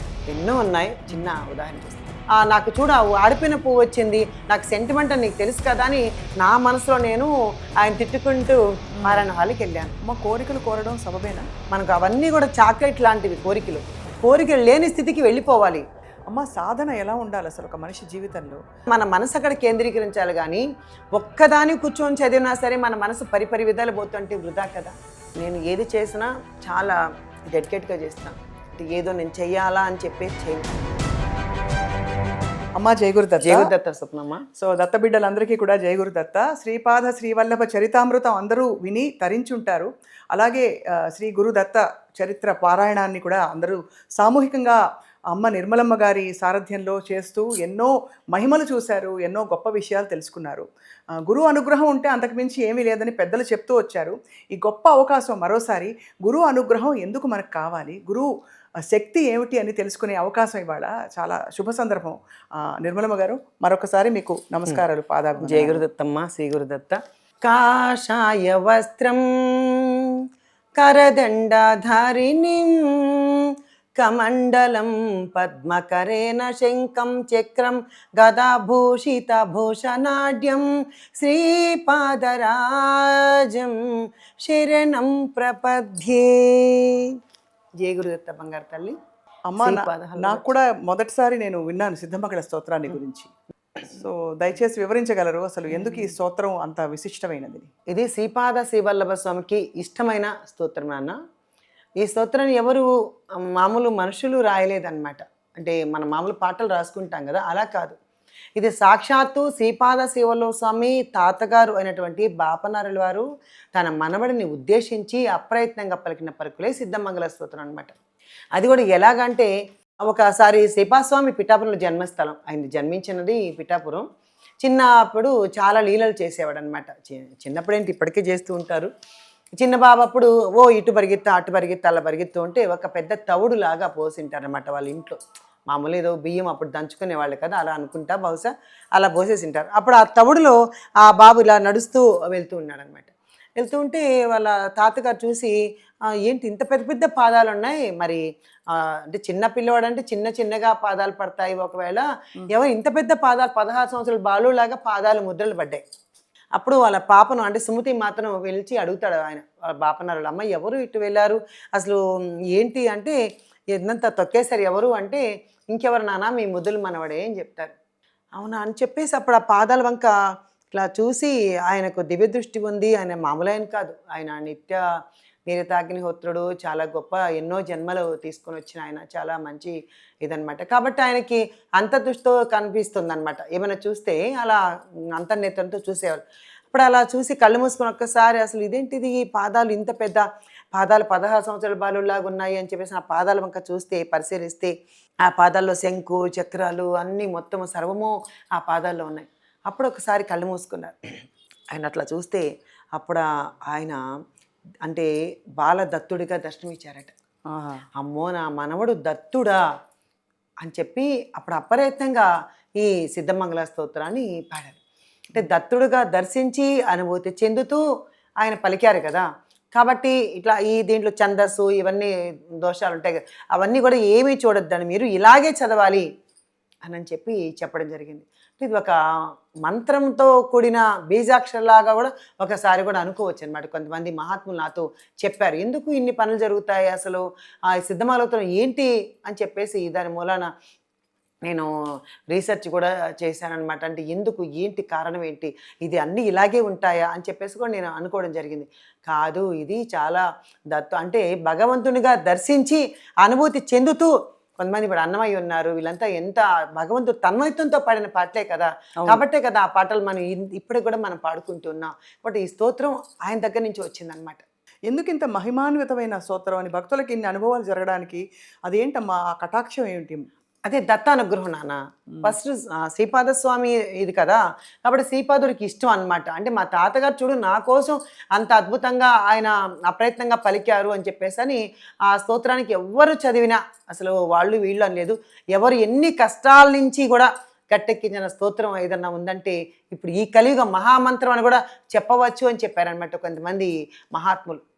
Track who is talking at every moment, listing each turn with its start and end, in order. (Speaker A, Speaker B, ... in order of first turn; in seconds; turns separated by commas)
Speaker A: 0.3-7.3, Speaker A: 7.8-9.9, Speaker B: 9.0-9.3, Speaker B: 10.0-11.5, Speaker A: 11.7-15.8, Speaker B: 16.3-18.6, Speaker A: 18.9-20.6, Speaker A: 21.1-27.0, Speaker A: 27.5-30.8, Speaker B: 32.8-33.7, Speaker A: 33.4-34.4, Speaker B: 34.5-44.8, Speaker B: 45.3-50.6, Speaker B: 51.2-58.3, Speaker B: 58.9-65.8, Speaker A: 65.4-69.8, Speaker A: 70.8-73.4, Speaker A: 74.0-80.7, Speaker A: 81.2-83.8, Speaker A: 84.4-87.0, Speaker A: 87.8-88.9, Speaker B: 89.5-93.3, Speaker A: 89.6-90.5, Speaker B: 93.9-97.7, Speaker A: 95.7-96.1, Speaker A: 97.9-101.1, Speaker A: 102.0-102.8, Speaker A: 103.4-108.0, Speaker A: 108.6-117.9, Speaker A: 118.5-119.5, Speaker A: 120.0-124.0, Speaker A: 124.6-128.9, Speaker A: 129.6-135.2, Speaker A: 135.7-145.5, Speaker A: 146.2-155.8, Speaker A: 156.6-162.0, Speaker A: 162.5-163.2, Speaker A: 163.7-167.7, Speaker A: 168.4-170.1, Speaker A: 170.7-174.8, Speaker A: 175.5-184.6, Speaker A: 185.1-194.7, Speaker A: 195.2-200.9, Speaker A: 201.7-202.4, Speaker A: 203.0-204.0, Speaker A: 205.6-207.1, Speaker B: 207.5-207.8, Speaker A: 208.0-209.6, Speaker A: 210.6-212.3, Speaker A: 212.8-214.8, Speaker A: 215.3-217.8, Speaker A: 218.4-222.1, Speaker A: 222.6-226.0, Speaker A: 226.8-228.9, Speaker A: 229.6-237.2, Speaker A: 237.7-240.5, Speaker A: 242.3-264.4, Speaker B: 264.9-270.2, Speaker A: 270.6-294.6